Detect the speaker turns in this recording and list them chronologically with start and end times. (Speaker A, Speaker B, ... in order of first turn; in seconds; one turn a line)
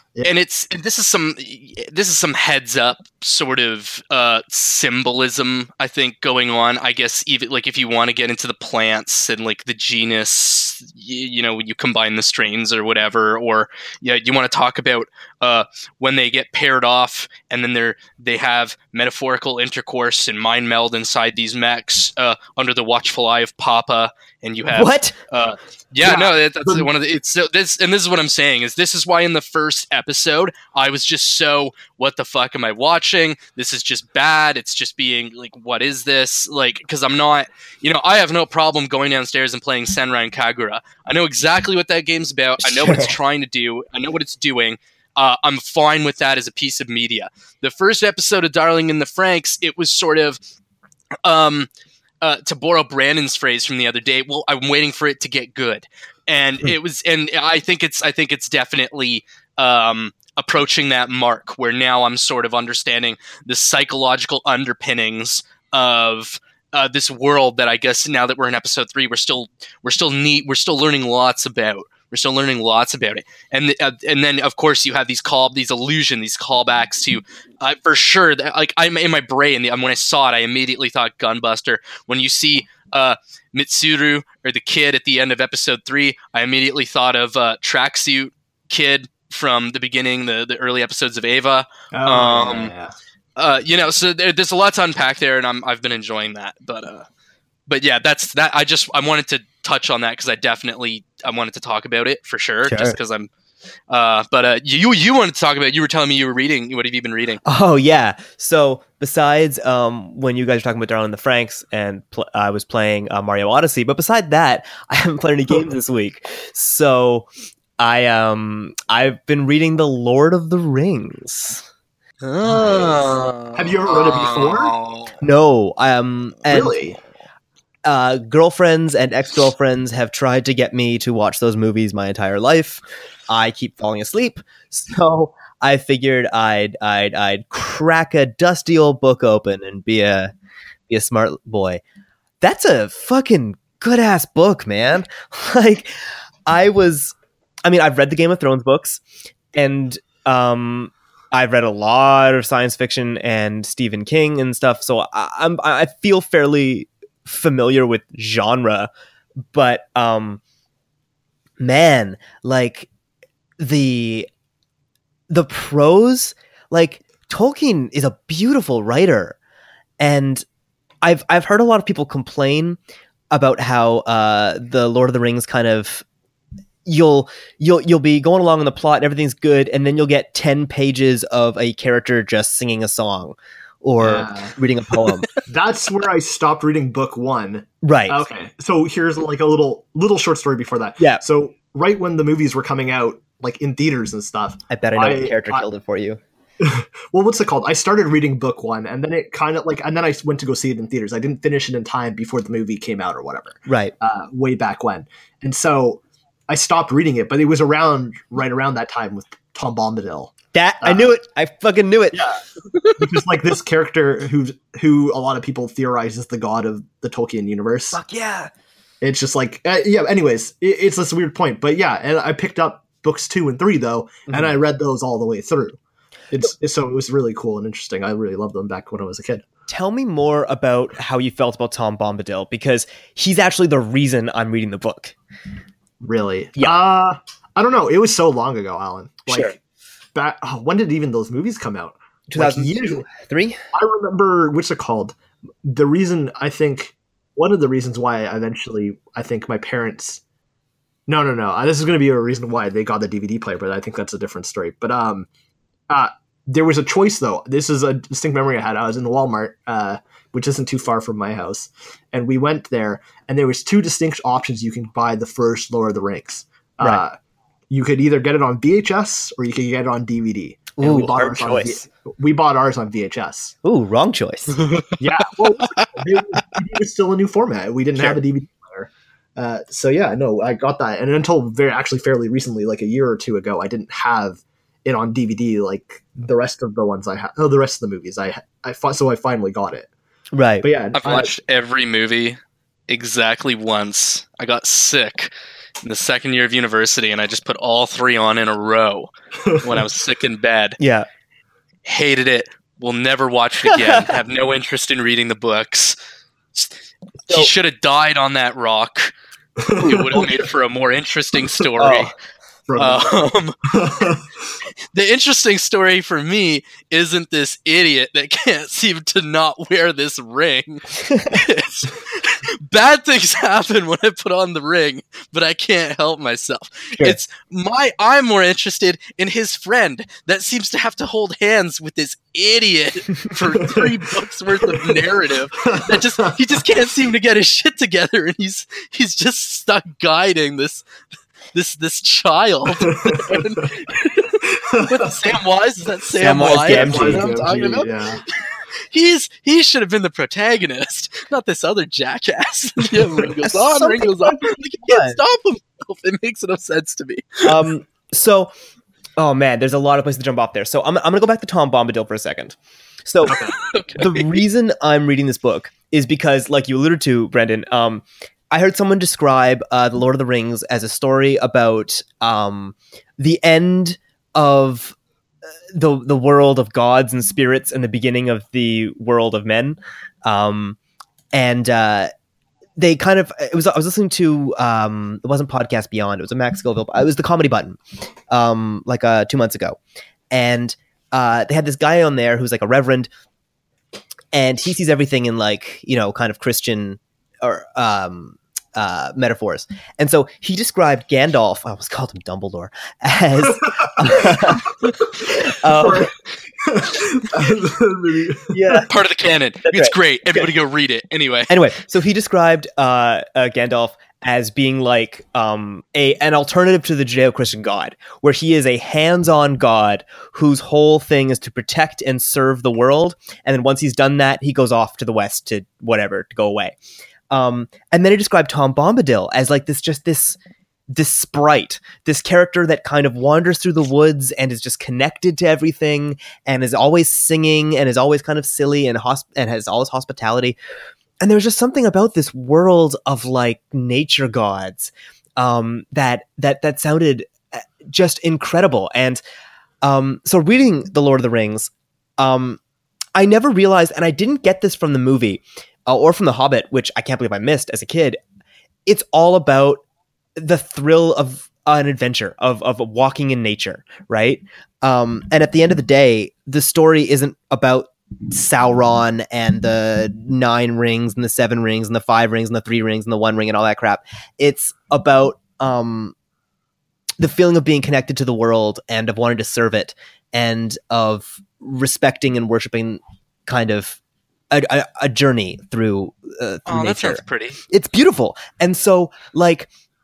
Speaker A: 0.2-50.4
Speaker B: 24.7-25.1
Speaker C: 26.0-26.9
Speaker B: 42.6-43.1
Speaker A: 51.2-51.7
Speaker A: 52.2-92.7
Speaker C: 91.9-92.9
Speaker A: 93.4-97.0
Speaker A: 97.7-103.3
Speaker B: 102.6-103.0
Speaker A: 103.9-107.4
Speaker B: 107.4-117.3
Speaker B: 117.8-121.6
Speaker A: 122.2-125.1
Speaker C: 122.4-124.7
Speaker B: 125.2-126.7
Speaker C: 126.5-127.0
Speaker B: 127.8-140.3
Speaker B: 140.9-141.8
Speaker B: 142.4-147.1
Speaker B: 147.7-149.0
Speaker B: 149.5-158.9
Speaker B: 159.5-160.4
Speaker B: 161.6-162.9
Speaker B: 163.6-164.3
Speaker B: 165.3-169.3
Speaker B: 170.0-170.4
Speaker B: 171.0-172.8
Speaker B: 173.3-176.0
Speaker B: 176.8-185.3
Speaker C: 184.0-184.5
Speaker C: 185.4-195.7
Speaker B: 187.8-188.2
Speaker B: 194.7-196.2
Speaker C: 196.6-211.1
Speaker B: 203.7-203.9
Speaker B: 210.5-212.2
Speaker C: 212.1-218.0
Speaker B: 217.9-218.5
Speaker C: 219.0-225.8
Speaker B: 224.3-224.6
Speaker C: 226.3-229.4
Speaker B: 229.7-235.1
Speaker C: 236.0-239.6
Speaker B: 239.3-239.5
Speaker C: 240.1-243.0
Speaker B: 242.3-243.6
Speaker C: 243.7-250.2
Speaker C: 251.1-255.3
Speaker C: 255.9-267.1
Speaker C: 267.7-273.6
Speaker B: 270.8-271.8
Speaker B: 273.6-274.6
Speaker A: 274.6-276.4
Speaker C: 275.0-289.9
Speaker B: 290.3-290.7
Speaker C: 290.6-291.3
Speaker A: 290.9-292.4
Speaker A: 292.9-295.3
Speaker A: 295.8-300.8
Speaker B: 300.8-301.1
Speaker A: 301.8-305.9
Speaker B: 303.8-304.1
Speaker A: 307.3-309.1
Speaker C: 309.6-310.3
Speaker A: 309.8-312.1
Speaker B: 311.8-312.1
Speaker C: 312.7-314.2
Speaker A: 312.8-313.6
Speaker A: 314.9-340.8
Speaker B: 321.1-321.4
Speaker C: 333.7-333.9
Speaker C: 334.6-335.0
Speaker C: 335.6-336.6
Speaker A: 341.5-357.6
Speaker C: 342.8-343.5
Speaker C: 344.4-345.2
Speaker B: 346.2-347.5
Speaker C: 346.6-348.2
Speaker B: 353.4-355.2
Speaker B: 357.4-358.5
Speaker B: 359.2-374.9
Speaker C: 363.3-363.5
Speaker A: 363.3-364.3
Speaker B: 375.7-380.8
Speaker B: 381.3-382.1
Speaker B: 382.8-387.8
Speaker B: 388.3-389.8
Speaker B: 390.3-393.1
Speaker B: 394.3-406.1
Speaker C: 403.8-404.7
Speaker C: 405.7-408.5
Speaker B: 408.5-408.9
Speaker A: 408.9-411.6
Speaker B: 409.6-410.4
Speaker B: 411.5-426.8
Speaker B: 427.3-430.4
Speaker B: 430.9-440.6
Speaker B: 441.2-449.2
Speaker B: 449.8-452.6
Speaker B: 453.1-458.2
Speaker B: 458.9-459.8
Speaker B: 460.4-476.1
Speaker B: 477.2-484.0
Speaker B: 484.5-489.7
Speaker A: 486.6-487.6